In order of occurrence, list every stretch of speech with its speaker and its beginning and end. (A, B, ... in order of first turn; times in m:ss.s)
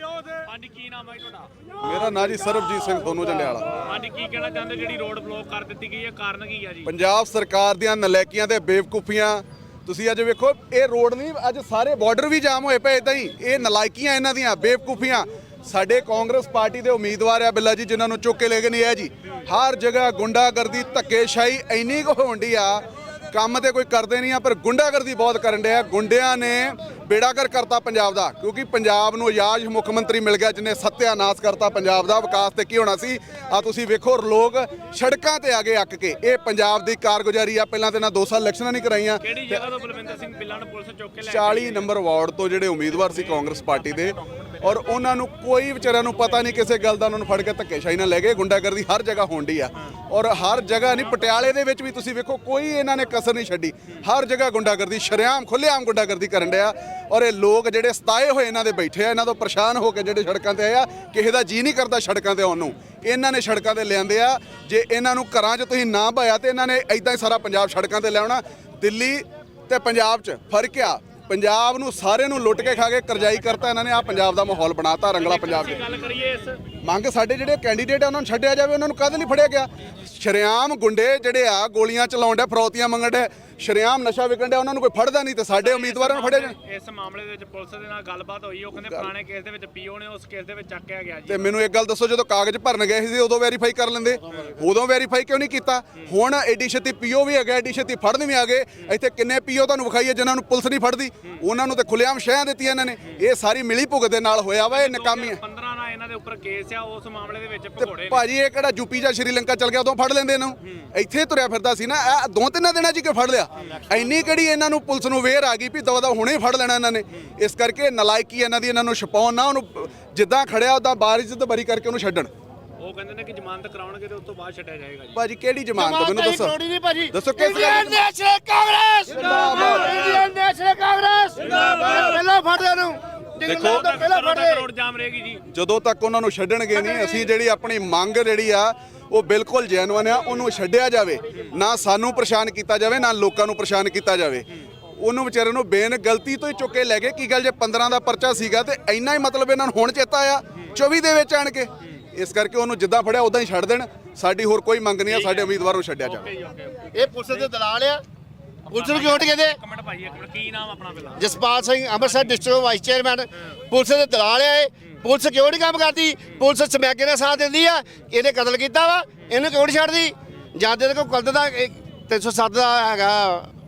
0:00.3-0:01.5 A
0:01.8-0:03.8 B
0:03.8-0:06.9 A
0:06.8-0:39.6 B
0:39.2-0:41.9 A
0:41.2-1:16.0 B
0:43.0-0:44.8 A
0:50.7-0:51.2 A
1:15.1-1:16.6 A
1:16.8-1:26.6 B
1:25.5-1:31.6 A
1:28.7-1:29.1 B
1:31.3-1:45.4 B
1:44.7-1:48.3 A
1:47.8-2:02.3 B
1:53.6-1:54.0 A
2:02.8-2:05.2 A
2:05.1-2:06.6 B
2:05.8-2:14.7 C
2:07.1-2:08.1 B
2:09.1-2:10.1 B
2:13.5-2:15.4 A
2:15.5-2:24.5 B
2:25.0-2:36.3 B
2:35.1-2:37.5 A
2:36.9-2:38.0 C
2:38.7-2:39.6 C
2:38.7-2:41.3 A
2:41.2-2:53.5 C